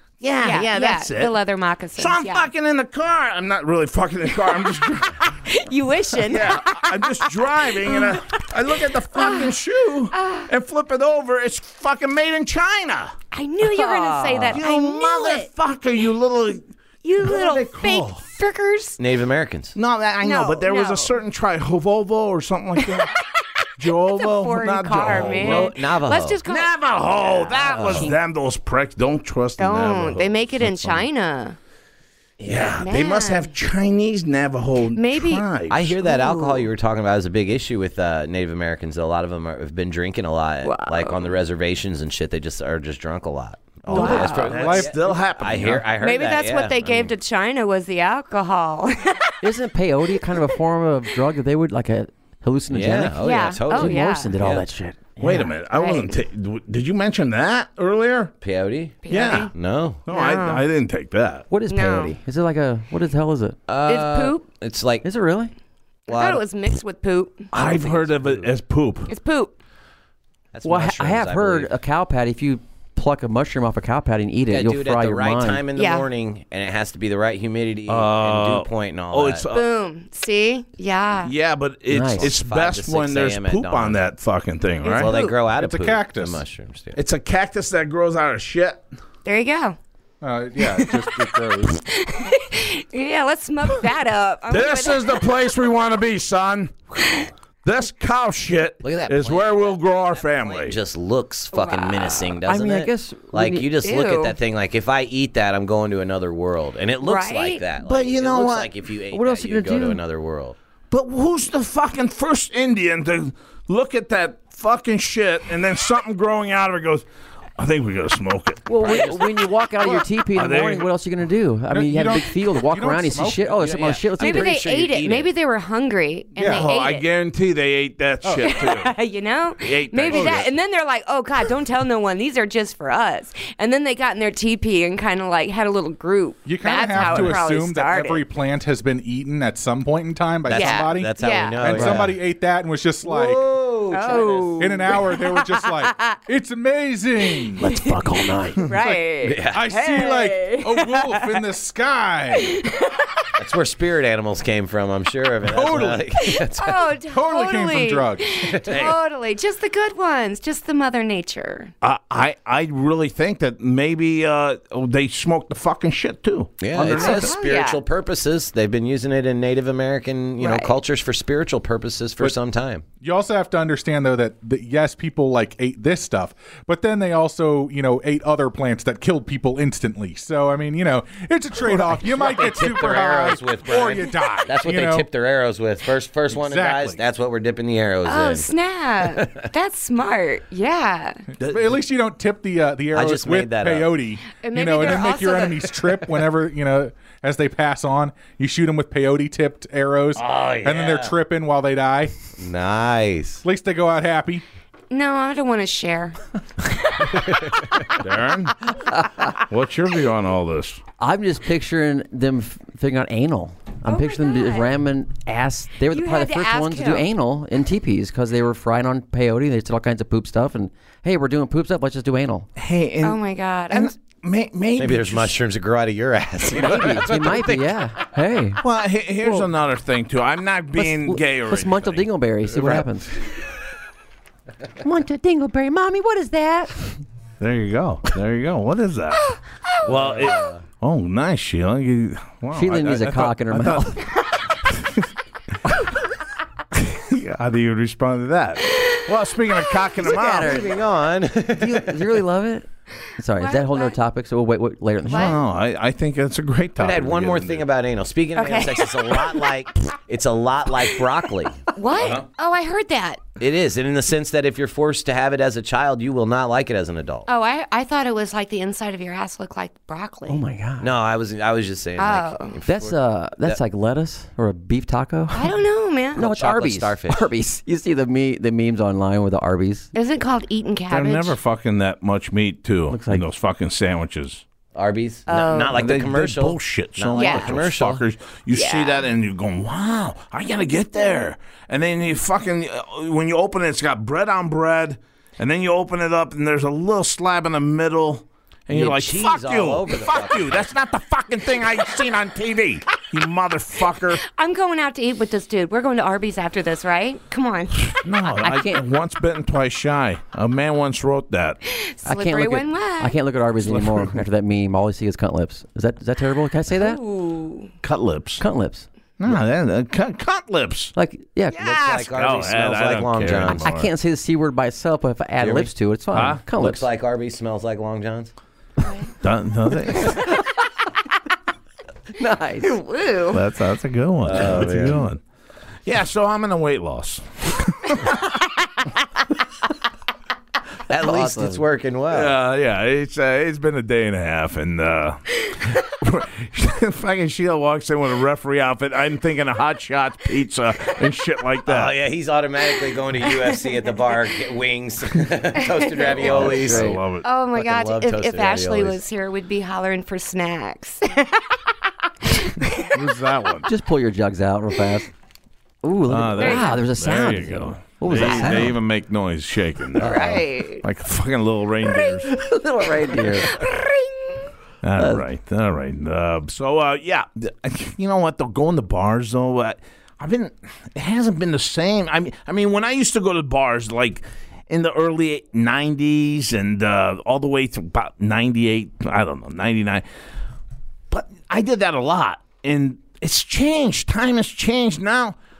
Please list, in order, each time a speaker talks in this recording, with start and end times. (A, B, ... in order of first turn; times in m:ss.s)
0:00.2-0:01.4 A
0:00.4-0:02.5 B
0:02.0-0:05.3 A
0:04.4-0:08.5 B
0:06.2-0:13.1 A
0:09.1-0:09.6 B
0:10.1-0:10.5 B
0:13.3-0:15.5 B
0:13.6-0:14.6 C
0:14.5-0:16.6 A
0:17.0-0:19.0 B
0:17.2-0:18.2 A
0:19.0-0:19.8 D
0:19.8-0:23.1 A
0:20.2-0:21.2 B
0:22.8-0:28.1 B
0:23.8-0:25.7 A
0:25.0-0:26.4 D
0:26.4-0:30.5 A
0:27.6-0:28.2 D
0:29.6-0:31.6 B
0:32.4-0:36.0 A
0:32.6-0:33.5 B
0:34.9-0:35.4 B
0:35.7-0:47.1 D
0:36.0-0:36.7 B
0:40.6-0:41.3 B
0:43.9-0:44.6 B
0:43.9-0:44.4 C
0:43.9-0:45.9 A
0:44.6-0:45.0 E
0:46.0-0:49.3 B
0:49.4-0:55.5 C
0:50.1-0:50.6 B
0:52.7-0:54.0 D
0:53.2-0:54.3 B
0:55.2-0:58.3 A
0:55.7-0:56.2 B
0:58.4-1:00.0 D
0:59.0-0:59.5 B
0:59.1-0:59.5 A
1:00.0-1:01.4 A
1:00.1-1:00.6 B
1:01.5-1:03.6 C
1:01.7-1:02.1 B
1:03.7-1:05.1 D
1:03.8-1:04.4 B
1:05.0-1:05.5 C
1:06.1-1:07.5 B
1:06.1-1:06.4 D
1:07.5-1:09.1 A
1:07.6-1:08.5 D
1:09.1-1:09.5 B
1:10.5-1:11.7 D
1:10.6-1:15.6 C
1:14.5-1:19.4 D
1:15.8-1:16.1 B
1:17.9-1:19.6 A
1:19.5-1:21.3 B
1:21.2-1:25.1 A
1:21.9-1:22.3 C
1:22.2-1:24.0 D
1:24.8-1:25.4 B
1:24.9-1:27.0 D
1:25.4-1:26.4 E
1:27.0-1:28.8 A
1:29.2-1:29.8 B
1:30.2-1:31.8 E
1:30.6-1:31.1 B
1:31.8-1:35.5 B
1:34.5-1:36.8 A
1:37.6-1:40.8 A
1:38.8-1:50.6 D
1:41.5-1:42.4 B
1:42.4-1:43.7 C
1:43.8-1:44.4 B
1:47.0-1:47.6 B
1:47.8-1:48.7 A
1:49.1-1:50.0 C
1:50.9-1:57.0 A
1:57.6-1:59.0 A
1:58.6-2:04.6 C
1:58.7-1:59.5 D
2:00.3-2:00.9 A
2:01.7-2:03.7 E
2:03.5-2:05.3 D
2:04.2-2:07.0 B
2:06.4-2:06.6 E
2:06.4-2:08.9 A
2:08.4-2:18.2 B
2:09.6-2:10.5 A
2:10.1-2:10.5 E
2:16.4-2:23.5 E
2:17.0-2:17.4 D
2:20.5-2:22.2 D
2:20.5-2:22.0 B
2:23.0-2:25.0 D
2:23.9-2:26.2 B
2:24.6-2:27.6 E
2:27.6-2:28.6 C
2:28.6-2:31.4 B
2:29.2-2:29.6 D
2:29.5-2:32.6 E
2:32.4-2:33.1 B
2:33.4-2:36.9 D
2:35.4-2:36.2 E
2:36.2-2:41.7 B
2:37.1-2:38.6 E
2:38.4-2:38.9 D
2:41.8-2:47.3 A
2:46.6-2:52.8 D
2:46.8-2:47.8 B
2:50.4-2:50.8 B
2:53.0-3:05.1 E
3:01.9-3:08.5 D
3:06.3-3:07.0 E
3:08.0-3:11.2 B
3:09.0-3:09.5 D
3:11.4-3:11.8 A
3:11.4-3:22.1 E
3:12.9-3:13.9 D
3:14.4-3:15.9 B
3:20.2-3:20.6 A
3:20.4-3:21.1 D
3:22.4-3:23.4 D
3:23.4-3:24.4 E
3:24.9-3:27.2 B
3:27.3-3:27.8 D
3:28.0-3:30.8 A
3:28.9-3:29.3 C
3:31.0-3:42.5 C
3:33.8-3:34.8 B
3:35.9-3:37.1 B
3:42.6-3:45.4 A
3:43.0-3:43.9 B
3:44.8-3:47.7 D
3:46.6-3:46.9 A
3:46.6-3:48.6 C
3:48.6-3:52.9 A
3:50.8-3:53.1 C
3:54.8-3:56.7 C
3:57.4-4:04.0 A
3:59.8-4:00.6 D
4:02.5-4:04.0 C
4:04.7-4:05.0 A
4:06.7-4:10.5 A
4:10.0-4:10.8 C
4:10.3-4:12.2 D
4:11.6-4:15.4 C
4:13.4-4:14.0 B
4:15.1-4:17.7 A
4:15.1-4:15.4 B
4:16.8-4:22.2 D
4:18.3-4:19.6 B
4:21.7-4:23.2 B
4:23.4-4:27.3 D
4:27.2-4:30.4 B
4:30.3-4:30.9 C
4:30.8-4:33.6 D
4:32.0-4:32.6 B
4:32.7-4:35.5 C
4:35.3-4:36.3 B
4:36.2-4:39.9 C
4:36.2-4:37.3 D
4:39.9-4:41.4 B
4:40.9-4:44.4 A
4:42.9-4:43.2 C
4:44.7-4:48.0 D
4:45.3-4:45.8 B
4:45.7-5:04.2 A
4:47.1-4:47.5 B
4:48.5-4:49.1 B
4:58.7-5:00.7 D
5:04.3-5:08.0 B
5:07.8-5:11.6 A
5:08.4-5:08.8 C
5:11.7-5:13.2 B
5:12.0-5:17.0 C
5:13.6-5:14.2 A
5:16.7-5:17.7 B
5:17.8-5:18.4 A
5:18.4-5:18.9 C
5:19.2-5:20.9 A
5:20.9-5:21.6 C
5:21.5-5:21.8 B
5:21.5-5:23.7 D
5:21.9-5:23.9 A
5:23.6-5:26.8 C
5:25.4-5:25.7 D
5:26.1-5:26.4 A
5:26.5-5:28.3 D
5:28.8-5:29.1 B
5:29.2-5:30.4 A
5:32.2-5:32.7 C
5:32.6-5:33.4 B
5:33.3-5:35.2 A
5:34.2-5:35.1 D
5:35.8-5:38.2 A
5:40.9-5:41.6 C
5:40.9-5:42.4 D
5:42.1-5:51.9 A
5:51.6-5:57.0 D
5:55.6-5:56.4 B
5:56.2-5:57.3 A
5:56.2-5:57.0 C
5:57.2-6:01.6 B
5:57.5-5:59.0 D
6:02.3-6:02.9 B
6:02.9-6:03.7 A
6:03.6-6:05.1 C
6:05.8-6:08.7 C
6:06.1-6:12.3 A
6:06.4-6:06.8 B
6:08.1-6:08.6 B
6:10.0-6:10.4 D
6:10.1-6:10.8 B
6:11.8-6:12.2 B
6:12.3-6:13.5 C
6:13.2-6:14.5 B
6:14.8-6:30.0 A
6:15.0-6:15.2 C
6:31.1-6:35.4 A